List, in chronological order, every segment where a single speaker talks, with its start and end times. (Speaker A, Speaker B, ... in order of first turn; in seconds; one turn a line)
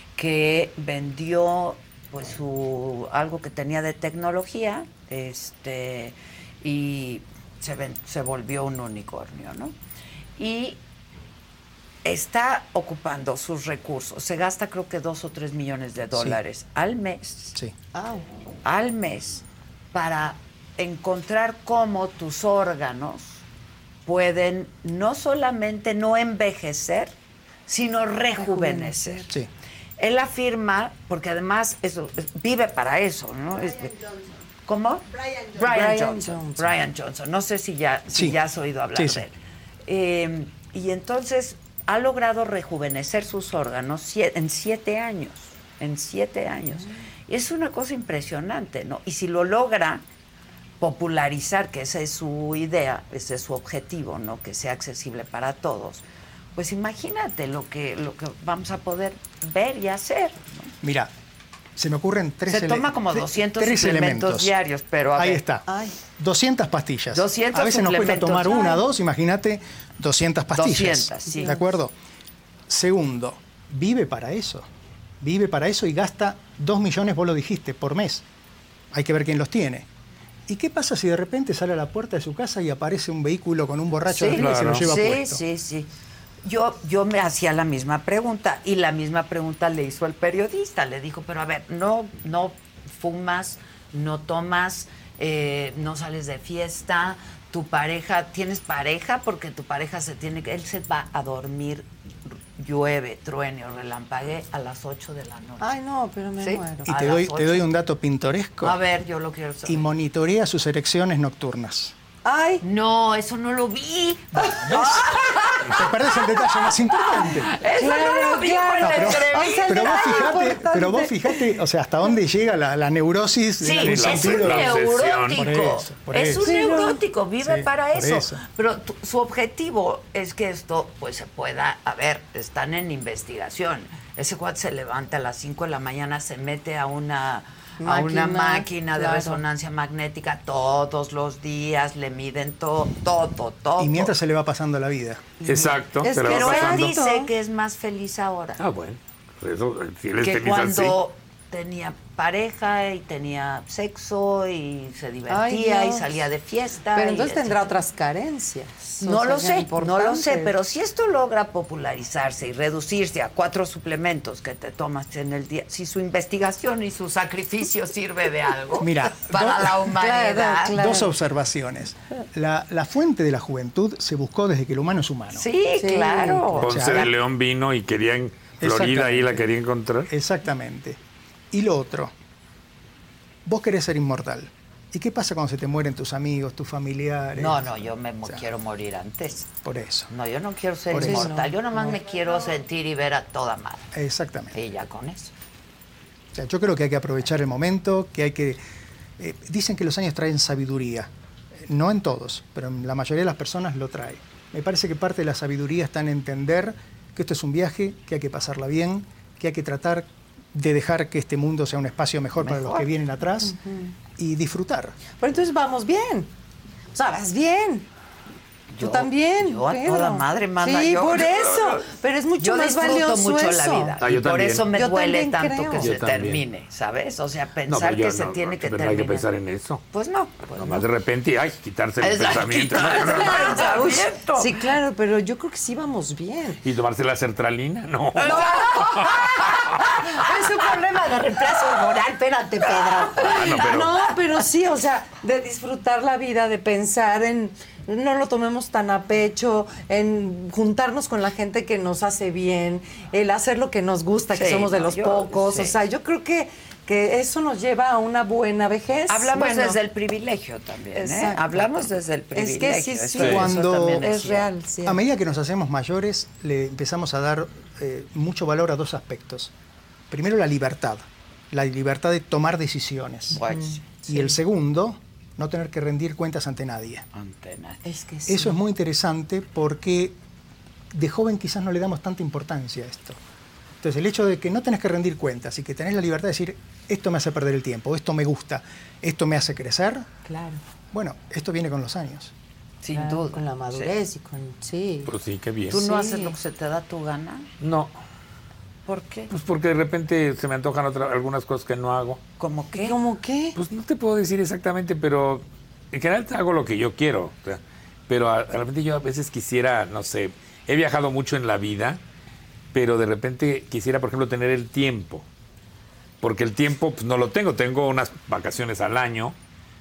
Speaker A: 0.1-9.8
Speaker A: 10.4-10.8
Speaker A: 12.0-17.6
Speaker B: 16.1-16.4
Speaker C: 17.9-18.2
Speaker A: 18.6-23.4
Speaker A: 24.1-27.1
Speaker A: 27.7-29.3
Speaker C: 28.4-29.3
Speaker A: 30.0-39.3
Speaker C: 35.6-36.7
Speaker B: 38.1-38.4
Speaker B: 39.0-39.2
Speaker A: 39.9-50.0
Speaker A: 50.8-56.0
Speaker A: 56.5-60.7
Speaker B: 60.8-61.1
Speaker B: 61.8-64.5
Speaker A: 62.5-65.4
Speaker B: 65.2-71.9
Speaker C: 65.7-66.0
Speaker A: 67.1-68.8
Speaker A: 70.5-71.5
Speaker C: 71.3-71.6
Speaker B: 72.7-74.7
Speaker B: 75.2-78.2
Speaker B: 78.9-79.9
Speaker B: 80.5-85.4
Speaker A: 84.1-85.9
Speaker D: 84.3-84.9
Speaker A: 86.4-105.8
Speaker C: 105.6-107.0
Speaker A: 106.4-107.7
Speaker B: 106.9-108.8
Speaker A: 108.6-109.9
Speaker B: 109.7-111.9
Speaker C: 112.2-112.6
Speaker A: 112.6-120.4
Speaker B: 114.4-117.5
Speaker C: 117.6-121.4
Speaker B: 118.8-126.7
Speaker A: 123.6-144.1
Speaker D: 123.8-125.5
Speaker C: 126.5-127.0
Speaker B: 127.4-128.4
Speaker C: 137.8-139.4
Speaker B: 143.8-145.4
Speaker A: 145.4-148.6
Speaker D: 145.5-146.9
Speaker C: 146.0-147.3
Speaker D: 148.6-151.0
Speaker A: 150.2-157.7
Speaker C: 155.3-156.2
Speaker C: 157.0-160.5
Speaker A: 159.0-170.8
Speaker B: 168.8-169.8
Speaker C: 169.9-171.1
Speaker B: 170.7-175.5
Speaker A: 175.3-177.1
Speaker C: 175.8-176.6
Speaker B: 176.6-177.1
Speaker D: 176.6-180.1
Speaker B: 178.6-179.4
Speaker B: 180.1-181.0
Speaker B: 181.5-182.1
Speaker B: 183.4-187.7
Speaker A: 187.4-189.5
Speaker B: 189.6-190.1
Speaker A: 190.1-193.9
Speaker B: 190.9-191.3
Speaker C: 190.9-192.0
Speaker B: 193.9-194.6
Speaker A: 194.5-195.3
Speaker B: 196.3-198.6
Speaker B: 199.2-201.1
Speaker B: 201.7-213.6
Speaker A: 212.4-212.9
Speaker C: 213.5-213.9
Speaker B: 214.2-215.0
Speaker C: 215.2-216.3
Speaker C: 216.9-217.9
Speaker A: 218.7-221.9
Speaker C: 218.8-224.0
Speaker A: 222.4-229.3
Speaker D: 224.0-224.7
Speaker C: 224.7-225.9
Speaker D: 225.8-226.4
Speaker D: 227.7-229.8
Speaker A: 229.9-230.9
Speaker D: 230.6-233.7
Speaker A: 232.0-234.6
Speaker C: 232.8-236.6
Speaker D: 236.6-239.8
Speaker A: 238.1-239.7
Speaker C: 238.2-239.4
Speaker C: 240.0-259.8
Speaker D: 243.1-244.0
Speaker A: 254.3-255.8
Speaker A: 259.1-264.5
Speaker C: 260.9-261.6
Speaker C: 262.3-265.0
Speaker D: 263.2-263.4
Speaker B: 263.2-264.1
Speaker B: 264.9-269.5
Speaker B: 270.1-273.4
Speaker A: 273.3-273.9
Speaker C: 273.3-274.4
Speaker B: 274.1-277.0
Speaker A: 277.1-277.9
Speaker C: 277.9-278.6
Speaker B: 278.3-280.1
Speaker B: 280.9-283.2
Speaker B: 283.8-290.1
Speaker C: 290.3-290.6
Speaker B: 290.9-292.3
Speaker A: 292.8-293.9
Speaker C: 292.9-295.1
Speaker D: 295.1-295.8
Speaker A: 295.7-297.5
Speaker C: 295.7-296.4
Speaker D: 297.6-298.0
Speaker A: 298.9-299.3
Speaker D: 299.3-302.2
Speaker A: 302.4-303.0
Speaker C: 302.8-303.6
Speaker D: 303.6-312.0
Speaker D: 312.7-315.3
Speaker D: 316.2-319.4